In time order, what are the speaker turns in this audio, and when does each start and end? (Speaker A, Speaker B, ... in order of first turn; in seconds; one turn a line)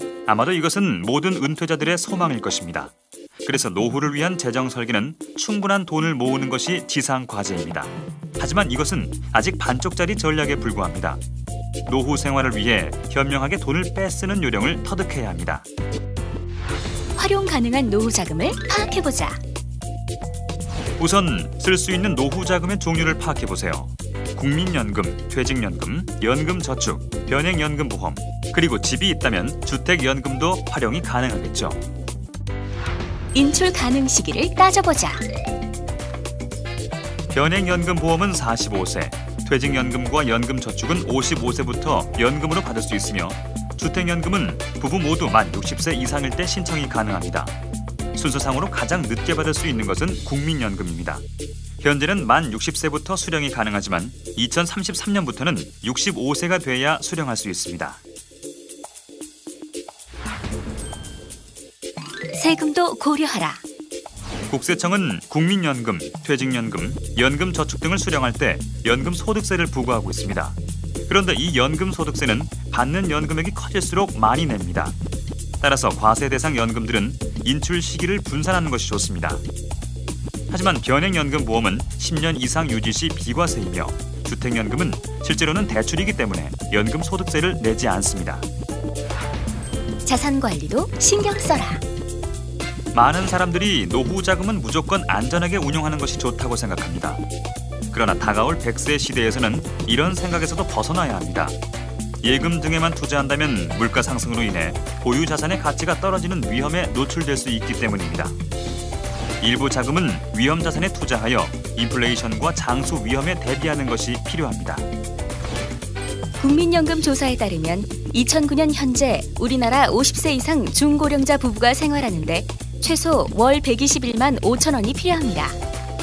Speaker A: 0.3-11.2
Speaker A: 11.9-15.7
Speaker B: 17.2-19.4
Speaker A: 21.0-31.8
Speaker B: 33.3-35.2
Speaker A: 37.3-47.5
Speaker A: 48.1-51.2
Speaker A: 51.8-58.0
Speaker B: 62.3-63.6
Speaker A: 64.5-75.0
Speaker A: 75.6-79.4
Speaker A: 80.5-88.5
Speaker B: 90.0-91.8
Speaker A: 92.9-97.2
Speaker A: 97.9-101.6
Speaker A: 102.2-108.4
Speaker A: 109.4-114.9
Speaker B: 116.4-125.6